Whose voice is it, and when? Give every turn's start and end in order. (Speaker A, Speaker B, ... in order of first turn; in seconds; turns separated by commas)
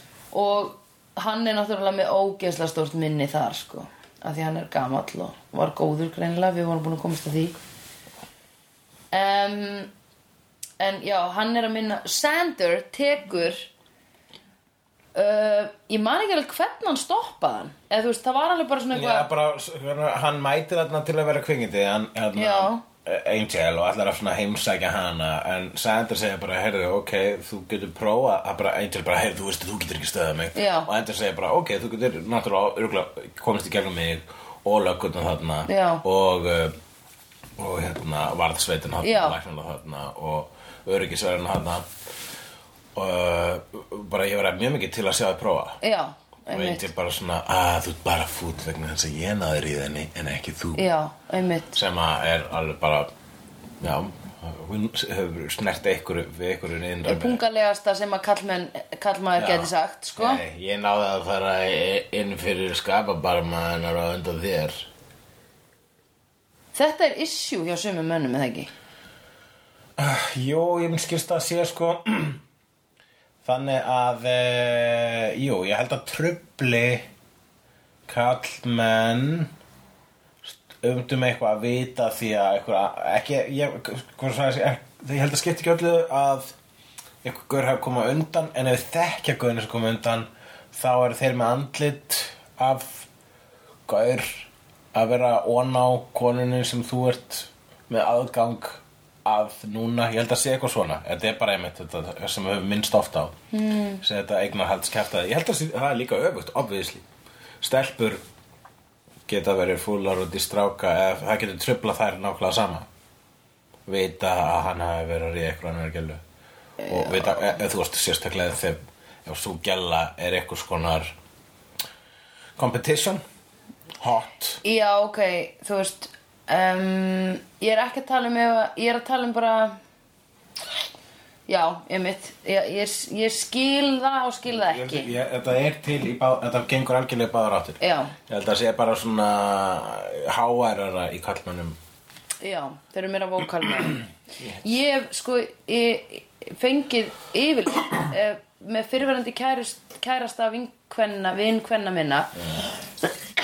Speaker A: 0.3-7.6, Speaker A: 9.1-9.9, Speaker A: 10.8-13.7, Speaker A: 15.1-19.3, Speaker B: 18.9-36.8, Speaker A: 22.4-22.8, Speaker A: 30.6-30.9, Speaker A: 35.7-36.0, Speaker B: 37.6-41.9, Speaker A: 39.0-39.4, Speaker B: 43.0-45.8, Speaker A: 45.8-46.9, Speaker B: 46.5-50.9, Speaker A: 50.8-51.8, Speaker B: 51.7-53.1, Speaker B: 53.8-57.4, Speaker A: 57.0-60.4, Speaker B: 59.4-64.9, Speaker A: 66.8-68.7, Speaker B: 70.0-72.4, Speaker B: 73.5-77.1, Speaker B: 78.1-79.5, Speaker B: 80.4-86.5, Speaker B: 87.2-93.1, Speaker B: 93.9-103.3, Speaker A: 103.5-104.0, Speaker B: 104.0-107.0, Speaker B: 107.6-108.2, Speaker B: 109.3-112.9, Speaker B: 113.9-116.2, Speaker A: 116.8-117.5, Speaker B: 116.9-121.1, Speaker B: 122.6-123.2, Speaker B: 124.0-124.6, Speaker A: 124.6-129.8, Speaker A: 131.5-135.1, Speaker B: 134.5-141.8, Speaker A: 137.8-138.2, Speaker A: 142.4-152.4